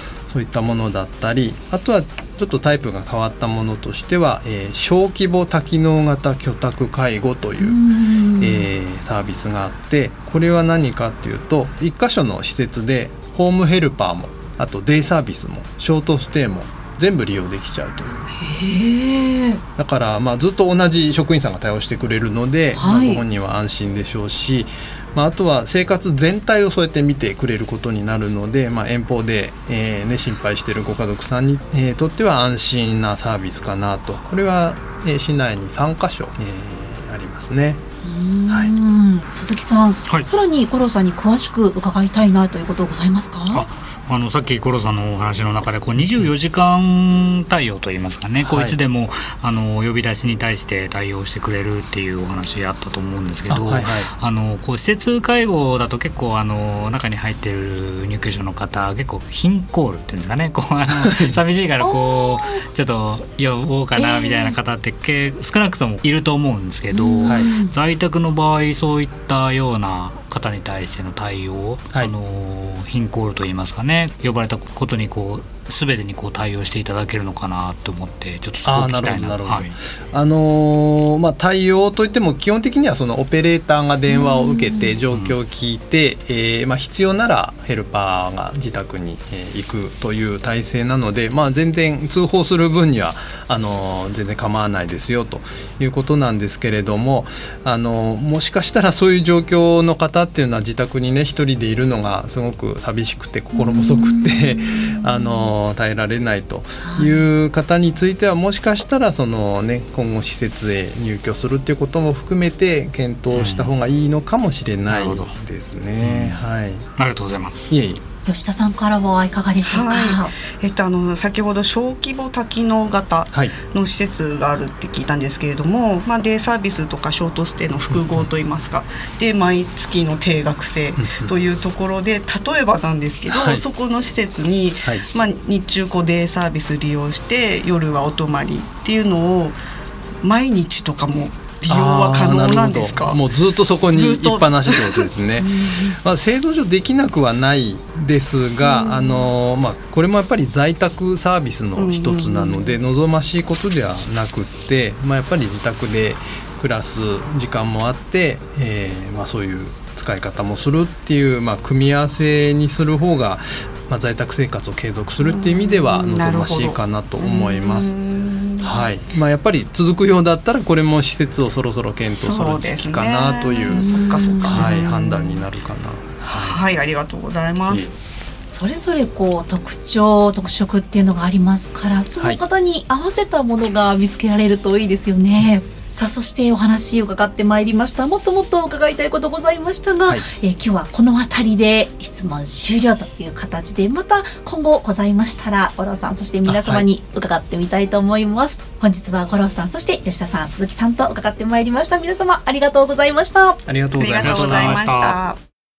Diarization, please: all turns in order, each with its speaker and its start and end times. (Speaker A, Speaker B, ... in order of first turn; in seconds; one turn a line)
Speaker A: 0.3-7.8
Speaker B: 7.6-8.7
Speaker A: 8.4-18.3
Speaker B: 18.4-19.6
Speaker A: 19.8-37.8
Speaker B: 22.8-23.2
Speaker B: 38.0-43.7
Speaker C: 43.5-79.8
Speaker A: 48.4-48.8
Speaker A: 53.5-54.1
Speaker A: 60.9-61.4
Speaker B: 61.8-62.6
Speaker B: 64.0-64.6
Speaker B: 66.9-67.7
Speaker A: 78.6-116.9
Speaker B: 84.1-85.0
Speaker B: 103.5-105.3
Speaker B: 106.8-107.2
Speaker C: 113.3-113.7
Speaker C: 114.9-115.3
Speaker C: 116.0-116.4
Speaker C: 117.0-117.8
Speaker A: 117.7-118.0
Speaker B: 118.3-120.3
Speaker D: 119.6-139.6
Speaker A: 127.9-128.3
Speaker A: 131.0-131.4
Speaker A: 133.3-133.6
Speaker D: 140.2-143.2
Speaker A: 141.7-167.9
Speaker D: 143.9-145.1
Speaker D: 148.6-149.3
Speaker D: 151.8-152.8
Speaker D: 165.2-168.9
Speaker A: 168.6-176.6
Speaker D: 172.1-175.4
Speaker B: 173.7-174.8
Speaker D: 176.3-177.9
Speaker A: 177.7-178.0
Speaker B: 178.5-203.6
Speaker A: 196.4-196.9
Speaker A: 203.7-204.8
Speaker D: 204.0-205.4
Speaker C: 204.2-205.2